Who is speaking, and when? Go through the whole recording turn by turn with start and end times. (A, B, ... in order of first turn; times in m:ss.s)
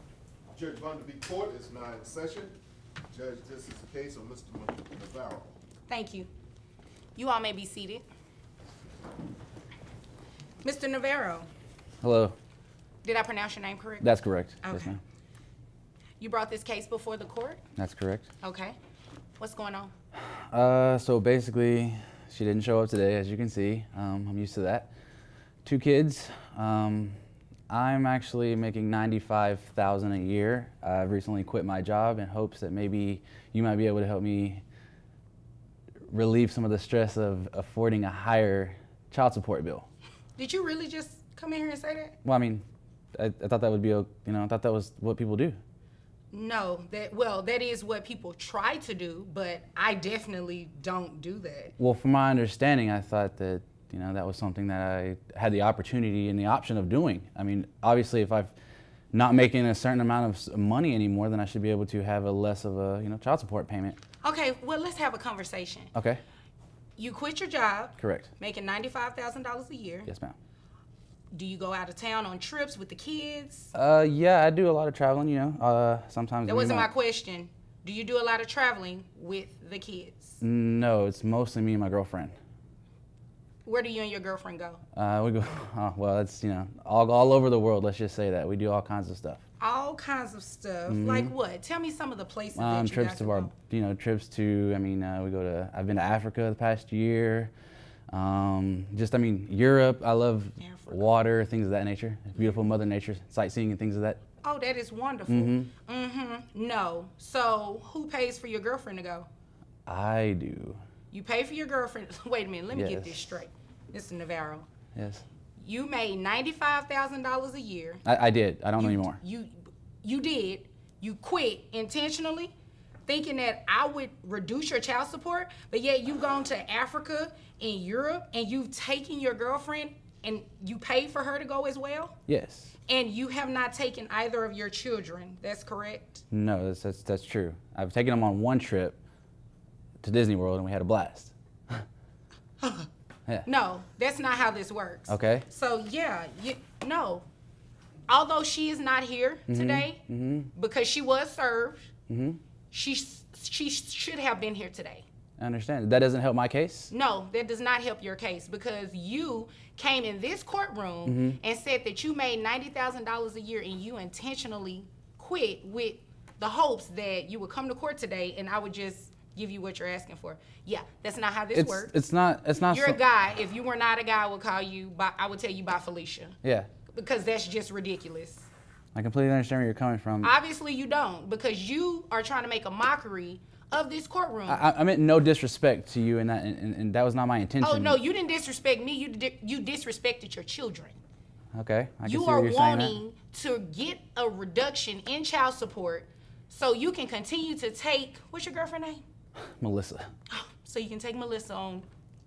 0:00.5-0:02.5 A
0:03.1-0:05.5 A
0:05.9-0:06.3 B
0:07.2-0:08.0 B
0:10.6-0:11.5 B
0:12.0-0:12.4 C
0:13.0-0:14.1 B
0:14.0-0:15.0 C
0:14.6-0:14.9 B
0:16.2-0:17.6 B
0:17.8-0:18.3 C
0:18.4-0:18.8 B
0:19.4-0:19.9 B
0:20.3-0:24.9 C
0:25.6-0:27.2 C
0:27.7-0:34.6 C
0:36.1-0:39.9 C
0:40.4-0:42.1 B
0:42.2-0:42.6 C
0:43.2-0:45.6 C
0:46.3-0:51.7 B
0:51.8-0:58.5 C
0:59.1-1:04.0 C
1:04.2-1:05.9 B
1:05.9-1:06.2 C
1:07.0-1:10.1 B
1:08.0-1:08.3 C
1:10.1-1:10.4 C
1:11.3-1:13.7 B
1:13.7-1:16.9 C
1:16.4-1:20.4 B
1:20.4-1:22.3 C
1:23.6-1:24.8 B
1:25.0-1:29.4 C
1:29.6-1:33.5 B
1:30.9-1:31.3 C
1:32.5-1:37.5 C
1:38.1-1:44.2 C
1:40.6-1:41.1 B
1:44.4-1:49.3 B
1:45.3-1:45.7 C
1:49.9-1:50.8 C
1:51.1-1:54.7 B
1:52.7-1:53.3 C
1:54.9-1:55.2 C
1:55.6-1:58.0 B
1:58.0-1:59.2 C
1:58.8-2:02.5 B
2:03.0-2:12.2 B
2:12.3-2:12.7 C
2:12.9-2:16.2 B
2:16.3-2:19.0 C
2:20.0-2:21.8 C
2:22.6-2:22.9 B
2:23.4-2:27.2 B
2:25.1-2:25.4 C
2:28.1-2:30.0 B
2:29.5-2:30.5 C
2:30.5-2:31.9 B
2:32.1-2:32.4 C
2:32.7-2:35.0 B
2:35.4-2:36.9 C
2:36.9-2:51.9 B
2:41.0-2:41.4 C
2:51.5-2:53.0 C
2:52.6-2:56.4 B
2:56.4-2:56.7 C
2:56.9-2:58.5 B
2:58.9-3:00.3 C
3:00.2-3:04.7 B
3:04.5-3:08.0 C
3:07.6-3:11.0 B
3:11.5-3:13.0 C
3:12.0-3:19.0 B
3:19.5-3:20.1 C
3:20.3-3:21.8 B